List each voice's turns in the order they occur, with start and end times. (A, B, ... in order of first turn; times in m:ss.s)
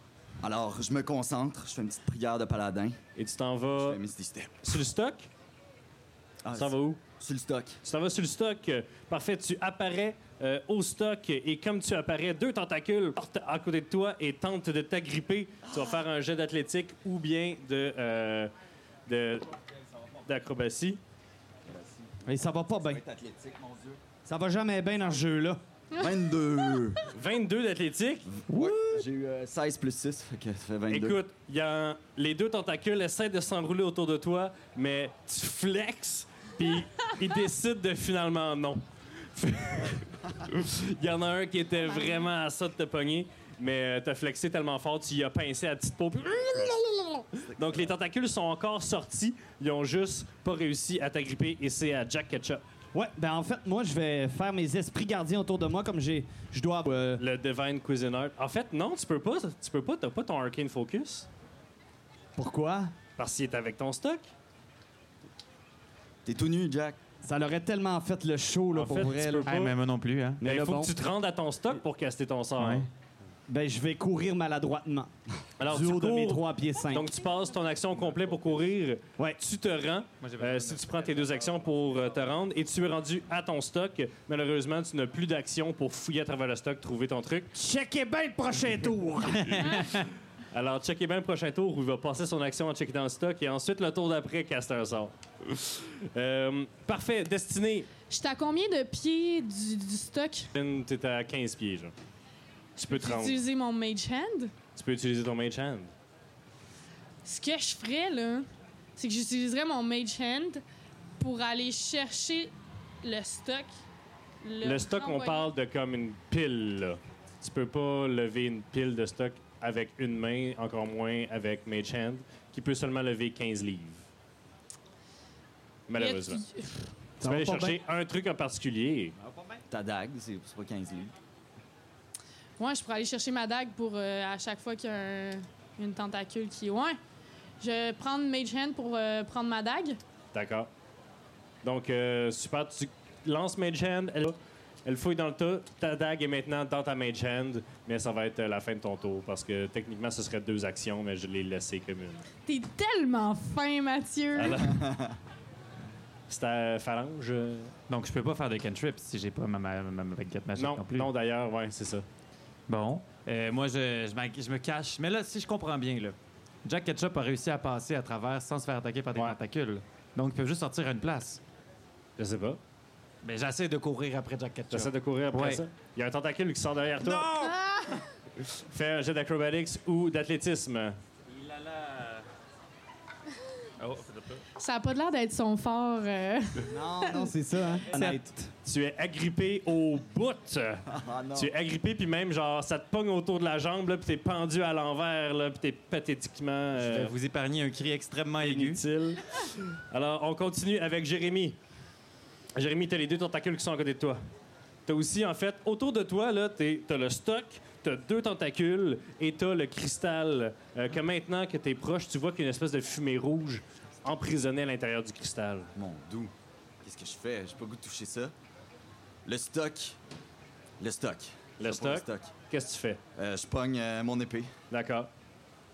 0:00.4-0:03.0 A
0:03.2-0:04.0 B
0:03.8-0:04.6 A
0:04.6-0:05.3 B
0:06.4-0:07.8 A
0:06.5-0:07.0 B
0:07.8-0:18.5 B
0:19.1-0:19.6 B
0:20.2-0:21.0 B
0:21.7-0:22.2 A
0:22.2-0:23.0 C
0:22.8-0:24.0 A
0:24.2-0:25.6 C
0:25.9-0:26.9 D
0:26.0-0:27.1 A
0:27.0-0:28.3 B
0:28.3-0:31.2 A
0:28.5-0:29.0 E
0:30.9-0:38.8 B
0:39.4-0:52.6 B
0:47.5-0:47.9 A
0:52.9-0:57.2 C
0:57.2-1:01.3 B
1:02.4-1:02.9 C
1:03.2-1:04.3 B
1:06.3-1:07.0 A
1:07.2-1:09.7 C
1:08.7-1:09.7 B
1:09.4-1:10.4 E
1:10.4-1:10.9 C
1:10.4-1:12.9 B
1:12.6-1:12.9 E
1:13.5-1:15.1 C
1:15.6-1:27.5 B
1:15.6-1:17.1 C
1:20.2-1:21.5 E
1:27.6-1:29.8 C
1:29.5-1:30.1 E
1:30.5-1:37.9 B
1:38.1-1:40.5 D
1:40.5-1:41.9 B
1:42.8-1:43.4 B
1:42.8-1:44.5 D
1:44.8-1:45.9 B
1:47.2-1:50.6 D
1:51.2-1:53.7 D
1:54.4-1:55.5 D
1:54.6-2:04.0 B
2:05.9-2:06.4 B
2:06.0-2:06.8 D
2:07.2-2:07.8 C
2:07.2-2:09.1 B
2:09.2-2:09.6 C
2:09.7-2:11.1 A
2:12.6-2:17.0 D
2:17.6-2:20.0 D
2:20.3-2:20.7 B
2:21.6-2:32.3 B
2:32.5-2:34.7 D
2:34.4-2:34.8 B
2:34.7-2:35.2 A
2:36.3-2:37.7 B
2:37.9-2:41.1 E
2:40.6-2:42.0 B
2:42.7-2:51.4 E
2:52.2-2:52.6 B
2:53.2-2:55.6 E
2:54.7-2:57.4 B
2:57.0-2:58.0 E
2:58.5-3:01.0 B
3:01.3-3:02.2 E
3:03.8-3:04.4 E
3:04.6-3:07.3 D
3:06.7-3:08.4 C
3:07.9-3:08.5 E
3:08.6-3:17.1 B
3:10.9-3:11.5 A
3:16.8-3:18.8 E
3:18.4-3:21.6 B
3:22.6-3:24.2 B
3:24.9-3:35.7 B
3:35.8-3:36.3 A
3:36.8-3:38.3 A
3:39.3-3:40.0 A
3:40.8-3:42.3 A
3:41.6-3:43.0 B
3:43.2-3:44.5 A
3:44.7-3:45.1 B